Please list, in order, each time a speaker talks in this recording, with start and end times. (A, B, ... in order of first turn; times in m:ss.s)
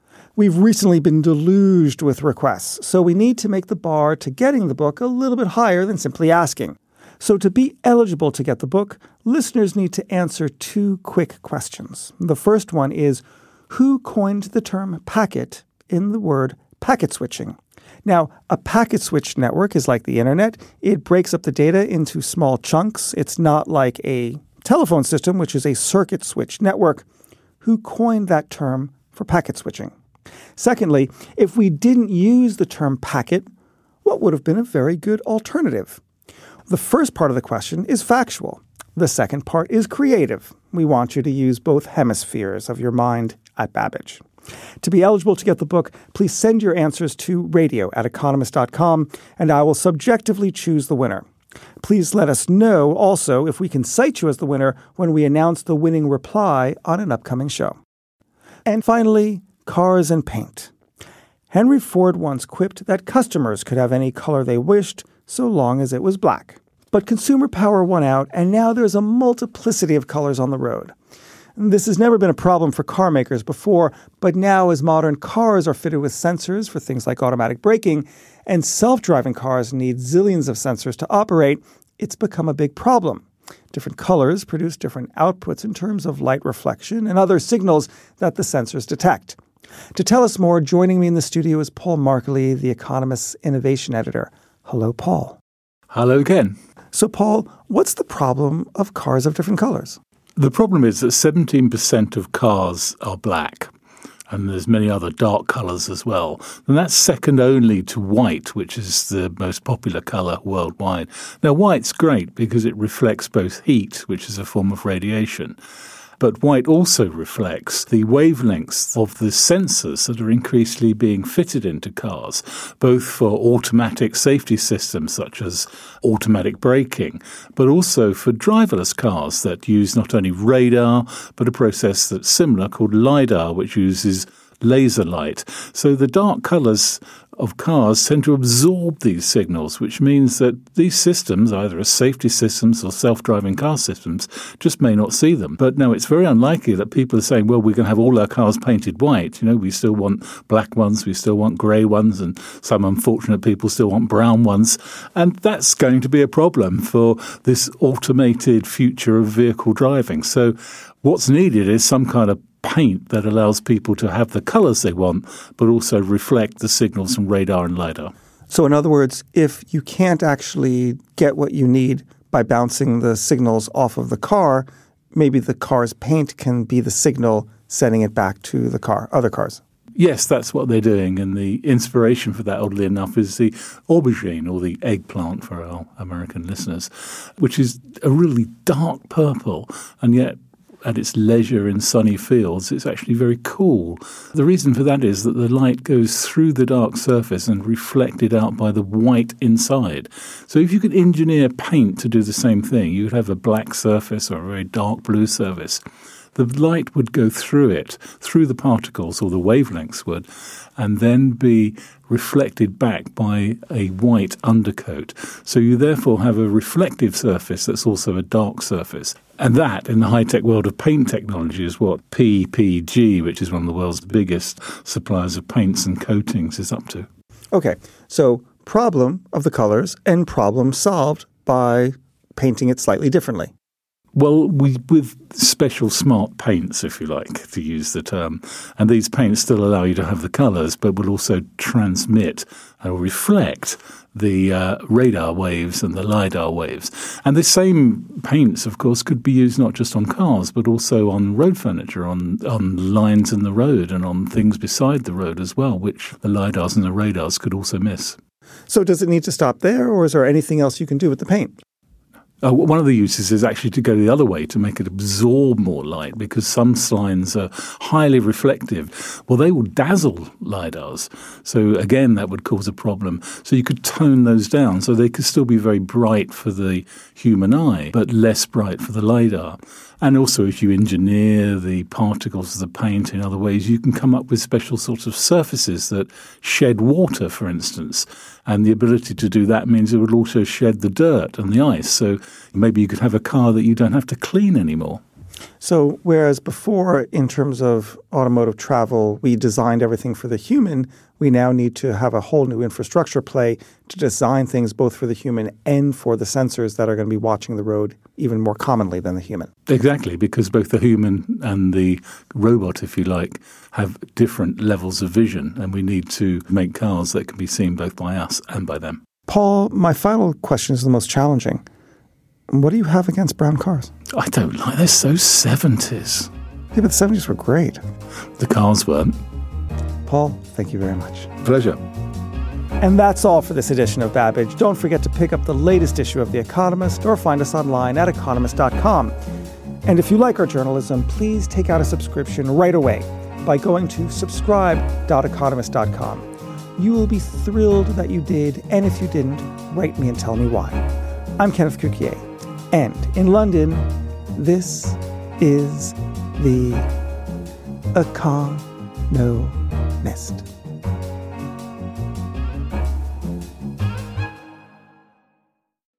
0:00.4-0:27.1 A
0:27.6-0:29.9 A
0:30.6-0:33.5 A
0:34.0-0:36.0 A
0:36.7-0:44.2 A
0:44.8-0:51.3 A
0:51.8-0:57.8 A
0:58.7-1:00.7 A
1:01.5-1:10.9 A
1:11.6-1:29.4 A
1:30.0-1:35.4 A
1:35.9-1:36.6 B
1:36.9-1:40.0 A
1:40.4-1:43.7 B
1:44.3-1:55.6 B
1:56.2-2:48.1 B
2:48.5-2:59.6 A
3:00.0-3:25.8 B
3:26.4-3:30.3 B
3:30.8-3:47.1 B
3:47.5-3:53.5 A
3:54.1-4:18.2 B
4:18.7-4:21.6 A
4:22.4-4:55.0 B
4:55.6-5:09.5 A
5:09.7-5:19.0 B
5:19.3-5:21.6 A
5:22.5-5:23.9 A
5:24.1-5:26.3 B
5:26.7-5:27.8 A
5:28.4-5:29.2 B
5:30.1-5:31.3 A
5:31.4-5:31.8 B
5:32.8-5:39.2 A
5:39.9-5:46.2 A
5:46.8-5:50.8 A
5:51.4-5:56.9 A
5:57.9-6:00.5 A